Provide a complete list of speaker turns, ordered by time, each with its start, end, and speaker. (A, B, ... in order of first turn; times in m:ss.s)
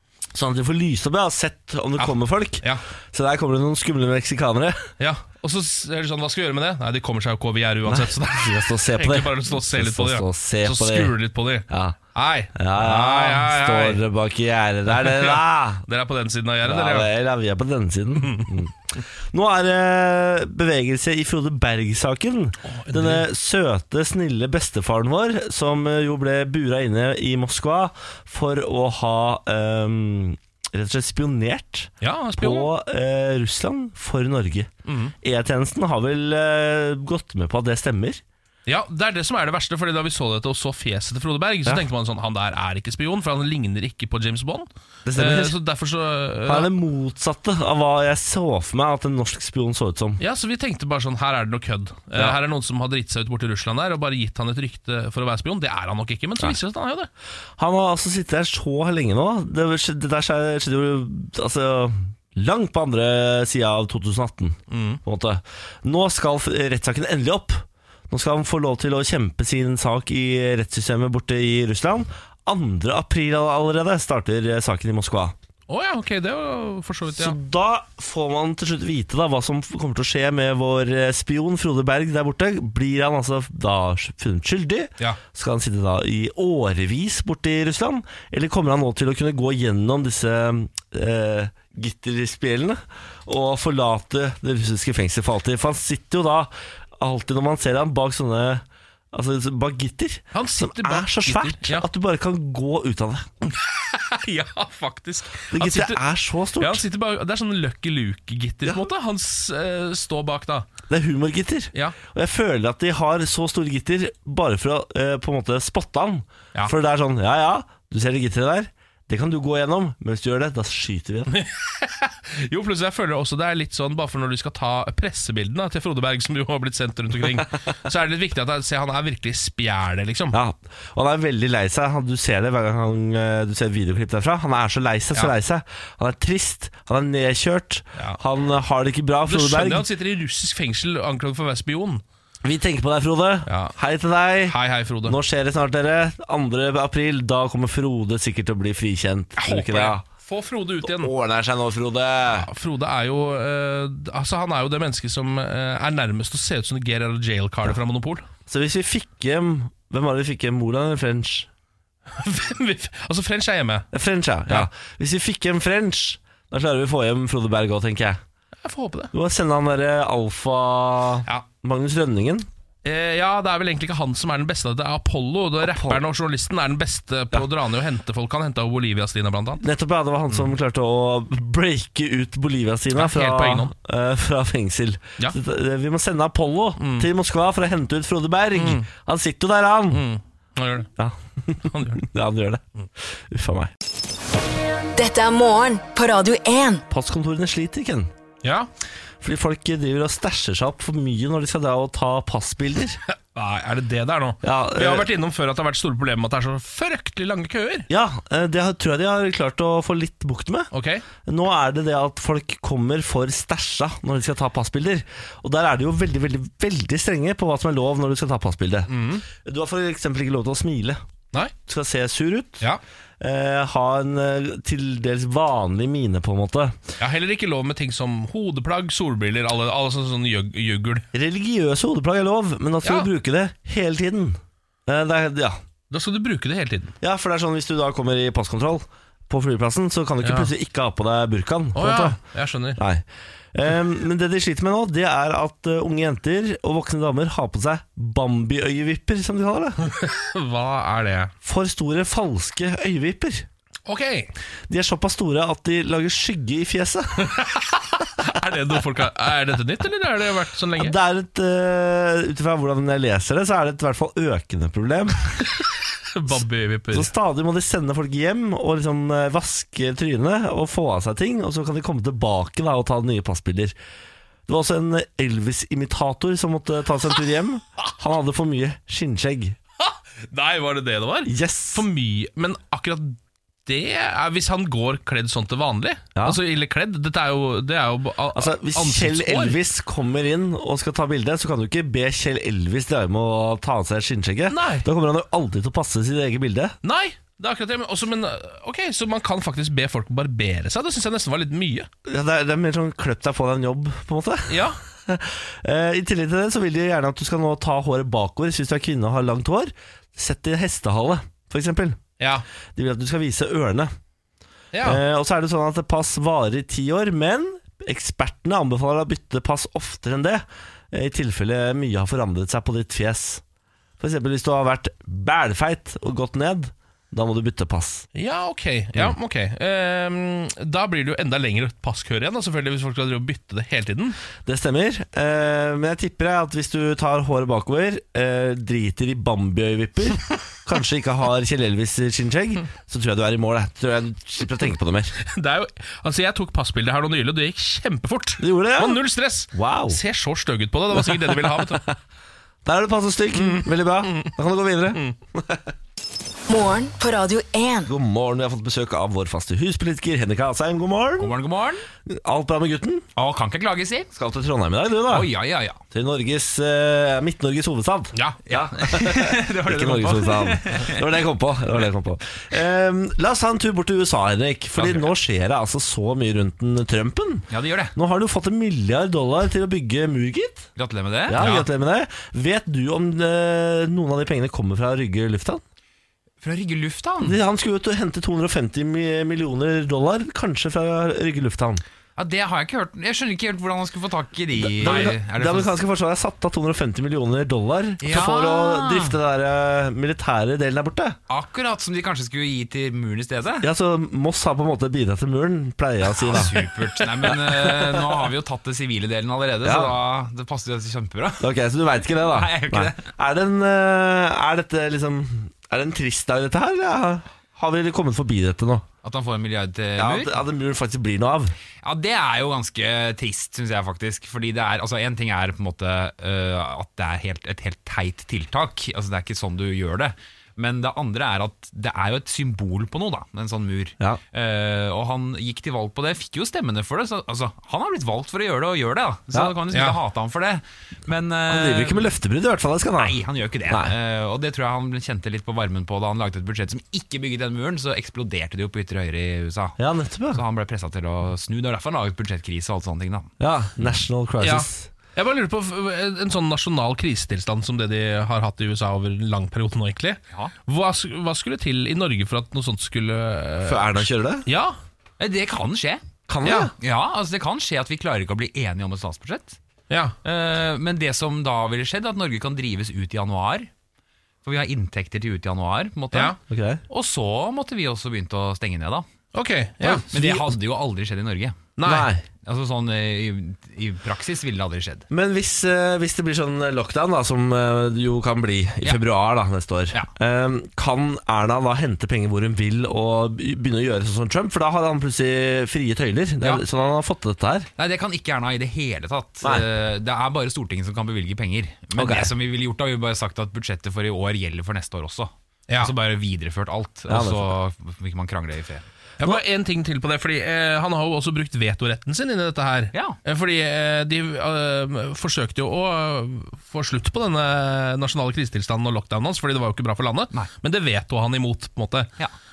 0:00.3-0:04.9 A
0:02.0-0:02.8 B
0:05.0-0:14.0 B
0:07.9-0:11.2 A
0:11.7-0:12.0 A
0:12.6-0:15.8 A
0:14.9-0:17.1 B
0:16.6-0:34.7 A
0:18.2-0:18.6 B
0:22.7-0:23.3 B
0:32.0-0:32.7 B
0:34.9-0:35.2 B
0:35.2-0:38.2 A
0:38.7-0:46.7 B
0:45.1-0:45.6 A
0:46.5-0:50.2 A
0:50.2-0:57.1 B
0:52.2-0:52.4 A
0:57.6-1:15.4 A
1:04.7-1:05.0 B
1:15.7-1:17.4 B
1:17.1-1:43.3 A
1:40.3-1:41.9 B
1:43.5-1:46.0 B
1:45.5-1:46.8 A
1:46.6-1:50.7 B
1:50.9-2:01.3 A
2:01.3-2:10.4 B
2:10.3-2:19.9 A
2:19.3-2:22.0 B
2:22.4-2:30.0 A
2:23.5-2:23.7 B
2:24.5-2:25.2 B
2:29.4-2:31.1 B
2:30.8-2:32.5 A
2:32.4-2:38.2 B
2:38.5-2:41.5 A
2:42.2-2:43.9 B
2:43.9-2:48.2 A
2:48.6-2:49.1 B
2:49.1-2:52.5 A
2:52.8-2:59.6 B
2:55.6-2:56.0 A
2:59.6-3:10.1 A
3:03.0-3:03.7 B
3:06.8-3:07.1 B
3:08.6-3:08.9 B
3:09.9-3:10.9 B
3:11.0-3:12.6 A
3:11.7-3:12.0 B
3:13.3-3:13.7 A
3:15.0-3:16.8 C
3:16.9-3:18.1 A
3:18.4-3:18.7 B
3:19.2-3:23.0 A
3:23.3-3:27.9 B
3:24.4-3:25.1 A
3:27.9-3:30.7 A
3:30.7-3:31.0 B
3:31.2-3:41.0 A
3:38.9-3:39.2 B
3:41.7-3:42.6 A
3:43.2-3:46.8 A
3:47.0-3:51.1 B
3:51.1-3:55.6 A
3:52.8-3:53.1 B
3:55.9-3:56.9 B
3:57.0-4:02.2 A
4:00.2-4:00.5 B
4:01.8-4:02.8 B
4:02.8-4:09.8 A
4:09.8-4:11.3 B
4:11.4-4:13.5 A
4:13.9-4:14.3 B
4:14.7-4:17.4 A
4:17.2-4:21.0 B
4:20.8-4:25.5 A
4:26.1-4:27.1 B
4:26.9-4:33.8 A
4:34.5-4:39.6 A
4:39.8-4:49.6 B
4:41.2-4:41.9 A
4:48.3-4:56.8 A
4:54.5-4:54.9 B
4:56.8-5:01.9 B
5:02.1-5:12.0 A
5:04.5-5:04.8 B
5:12.2-5:12.4 B
5:12.8-5:13.9 A
5:14.7-5:15.0 B
5:14.8-5:23.4 A
5:24.0-5:28.0 A
5:28.2-5:34.2 B
5:34.4-5:45.2 A
5:45.2-5:51.9 B
5:48.4-5:49.0 A
5:49.5-5:50.0 A
5:51.0-5:51.8 A
5:52.6-5:55.7 A
5:53.3-5:54.3 B
5:56.5-5:57.9 C
5:57.9-6:01.4 A
6:01.2-6:01.8 D
6:02.1-6:03.1 A
6:03.2-6:04.1 D
6:04.1-6:05.3 A
6:05.1-6:05.8 D
6:05.9-6:20.7 A
6:08.5-6:11.0 D
6:14.8-6:15.1 D
6:17.5-6:17.9 D
6:20.8-6:21.7 D
6:21.3-6:25.6 A
6:26.4-6:27.4 D
6:27.2-6:31.8 A
6:32.2-6:35.8 D
6:34.6-6:41.2 A
6:38.0-6:39.2 D
6:41.3-6:43.7 D
6:43.6-6:46.7 A
6:46.1-6:51.4 D
6:47.2-6:48.2 A
6:49.6-6:50.0 A
6:51.4-6:58.9 A
6:52.2-6:53.1 D
6:59.0-7:00.4 D
7:00.0-7:01.6 A
7:01.8-7:22.0 D
7:19.7-7:20.0 B
7:21.5-7:23.9 A
7:23.0-7:29.8 D
7:29.8-7:30.4 A
7:30.3-7:33.3 D
7:33.4-7:34.9 A
7:34.4-7:44.8 B
7:43.6-7:44.5 A
7:45.2-7:46.0 D
7:46.3-7:46.7 A
7:46.4-7:46.7 B
7:46.8-7:49.6 D
7:49.9-7:50.2 B
7:50.2-7:53.7 D
7:54.4-7:56.4 D
7:56.5-7:56.8 A
7:56.9-7:59.1 D
7:59.3-8:00.4 B
7:59.9-8:01.7 D
8:01.8-8:02.1 B
8:01.8-8:02.2 A
8:02.4-8:05.1 D
8:05.1-8:17.7 A
8:17.8-8:28.8 D
8:22.0-8:22.3 A
8:27.1-8:27.6 A
8:29.2-8:42.1 B